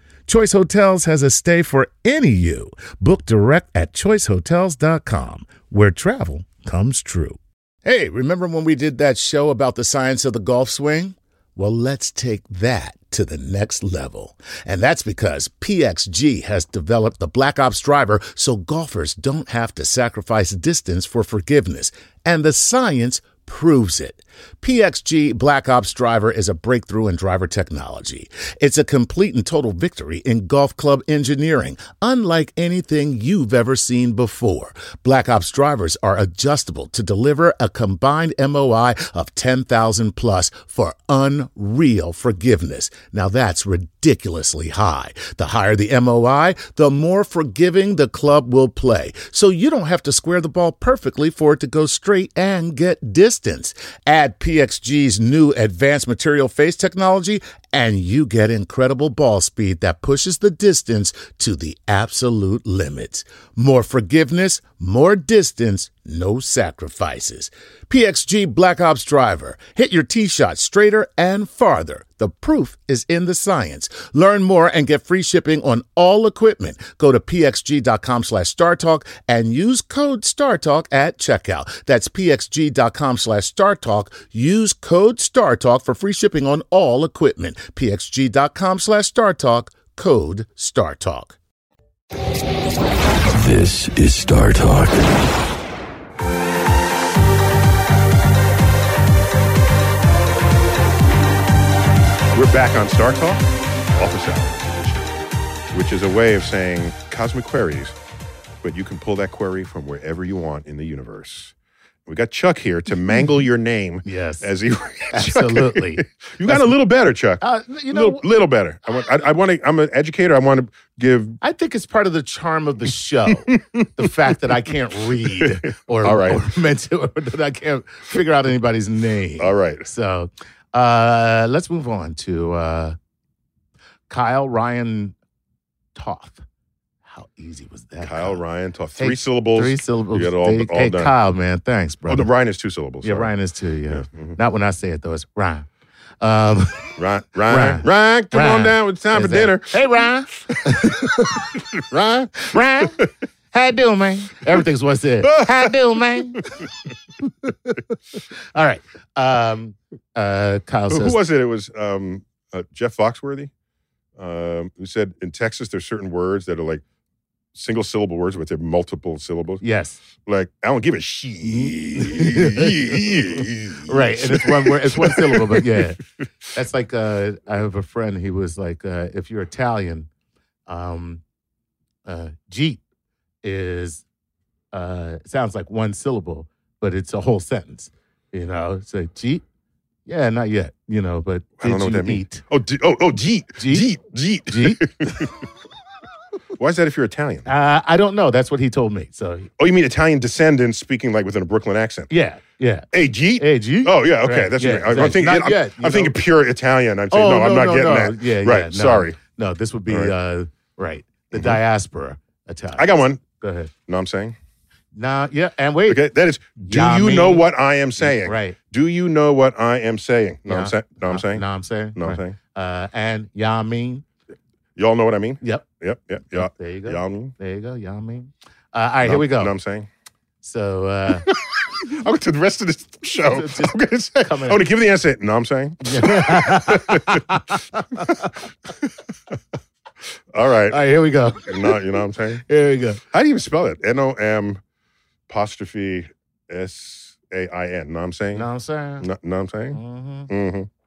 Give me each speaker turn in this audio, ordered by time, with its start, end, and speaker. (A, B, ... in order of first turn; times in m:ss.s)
0:00.3-1:31.4 A
1:33.3-1:35.4 B
1:42.3-1:45.2 C
1:45.7-1:48.0 C
1:48.6-1:51.5 C
1:52.1-2:01.4 C
1:54.0-1:54.5 A
1:55.1-1:56.8 A
1:57.4-1:58.3 A
2:01.4-2:13.0 A
2:03.5-2:04.0 C
2:05.2-2:06.4 C
2:09.4-2:09.9 C
2:14.1-2:15.2 A
2:16.0-2:16.4 A
2:17.1-2:18.4 A
2:18.0-2:21.1 C
2:19.0-2:22.3 A
2:22.1-2:23.3 C
2:23.0-2:25.7 A
2:23.9-2:24.4 C
2:26.2-2:31.5 A
2:27.0-2:33.1 C
2:32.4-2:36.7 A
2:35.2-2:35.8 C
2:37.2-2:37.9 A
2:38.5-2:41.2 A
2:40.9-2:43.5 C
2:44.2-2:46.8 C
2:47.5-2:49.6 C
2:49.6-2:50.0 A
2:50.2-2:55.9 C
2:51.4-2:53.1 A
2:53.8-2:56.0 A
2:56.5-3:00.1 A
3:00.7-3:01.2 A
3:02.1-3:02.8 A
3:03.4-3:04.0 A
3:04.7-3:09.4 A
3:10.1-3:12.4 A
3:11.6-3:15.3 C
3:13.6-3:13.9 A
3:14.5-3:15.3 A
3:16.6-3:17.5 C
3:17.4-3:19.5 A
3:19.6-3:22.1 C
3:22.1-3:26.2 A
3:22.9-3:29.2 C
3:27.1-3:33.7 A
3:29.9-3:30.1 C
3:31.3-3:31.6 C
3:32.8-3:33.2 C
3:33.9-3:34.4 C
3:34.9-3:36.1 A
3:35.9-3:41.4 C
3:36.6-3:38.6 A
3:40.5-3:44.0 A
3:42.0-3:42.4 C
3:44.8-3:47.3 C
3:46.3-3:49.5 A
3:49.0-3:49.9 C
3:50.4-3:51.3 A
3:51.1-3:57.2 C
3:53.3-3:54.6 A
3:55.8-3:58.4 A
3:58.0-3:58.9 C
4:00.3-4:00.8 C
4:00.7-4:01.8 A
4:01.4-4:02.4 C
4:02.4-4:03.0 A
4:03.1-4:04.6 C
4:05.3-4:08.5 C
4:08.3-4:09.1 A
4:09.0-4:10.7 C
4:09.7-4:10.3 A